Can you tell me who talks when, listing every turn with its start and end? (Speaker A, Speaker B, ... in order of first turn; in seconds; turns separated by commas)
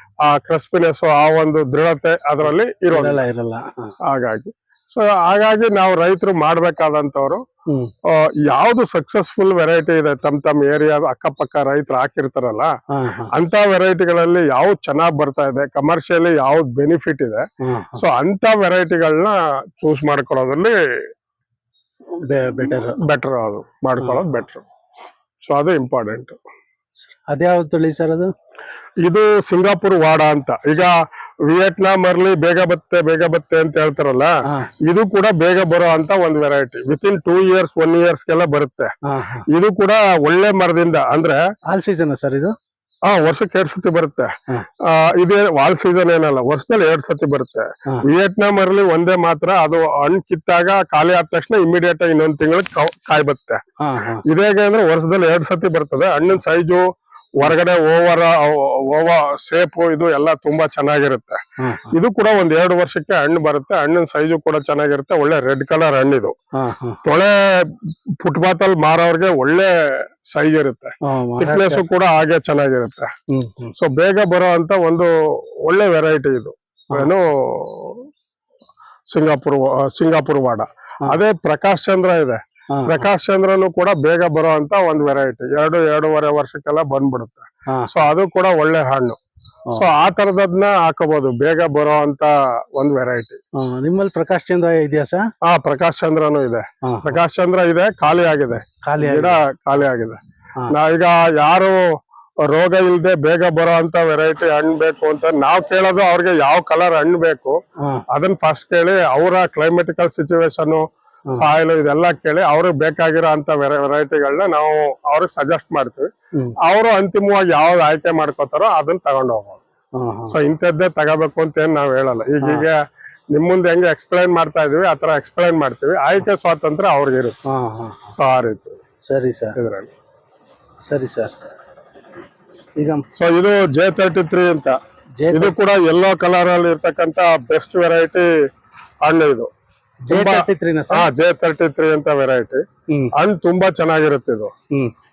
Speaker A: 0.2-3.2, Speaker B: 2.5-3.9, Speaker A: 4.1-7.4, Speaker A: 8.1-12.7, Speaker B: 12.9-13.3, Speaker A: 13.3-17.4, Speaker B: 17.6-18.0, Speaker A: 18.0-20.8, Speaker B: 22.3-22.9, Speaker A: 22.6-24.7, Speaker B: 24.0-24.3, Speaker A: 25.4-26.4, Speaker B: 27.1-28.3, Speaker A: 29.0-34.3, Speaker A: 34.9-38.9, Speaker B: 39.1-39.4, Speaker A: 39.5-41.4, Speaker B: 41.7-42.5, Speaker A: 43.0-44.3, Speaker A: 44.8-53.6, Speaker B: 53.8-54.2, Speaker A: 54.3-56.9, Speaker A: 57.4-61.4, Speaker B: 61.6-62.0, Speaker A: 61.9-66.3, Speaker B: 66.6-67.0, Speaker A: 67.0-73.1, Speaker B: 71.0-71.8, Speaker B: 73.3-73.7, Speaker A: 73.8-75.1, Speaker A: 75.7-78.0, Speaker A: 79.1-89.2, Speaker B: 82.8-83.0, Speaker A: 89.7-93.4, Speaker B: 93.6-95.2, Speaker A: 95.5-100.2, Speaker B: 96.9-97.2, Speaker B: 98.9-99.4, Speaker A: 100.7-101.8, Speaker A: 102.5-107.6, Speaker A: 108.1-116.1, Speaker A: 116.6-119.6, Speaker B: 120.0-120.4, Speaker A: 120.3-122.8, Speaker A: 123.3-127.4, Speaker B: 127.5-128.1, Speaker A: 128.2-128.8, Speaker B: 129.1-129.6, Speaker A: 129.6-129.9, Speaker B: 130.9-131.3, Speaker B: 132.8-133.1, Speaker A: 133.2-134.8, Speaker B: 135.2-135.6, Speaker A: 135.3-138.3, Speaker A: 139.0-139.5, Speaker B: 140.1-141.1, Speaker A: 140.1-142.6, Speaker A: 143.2-144.5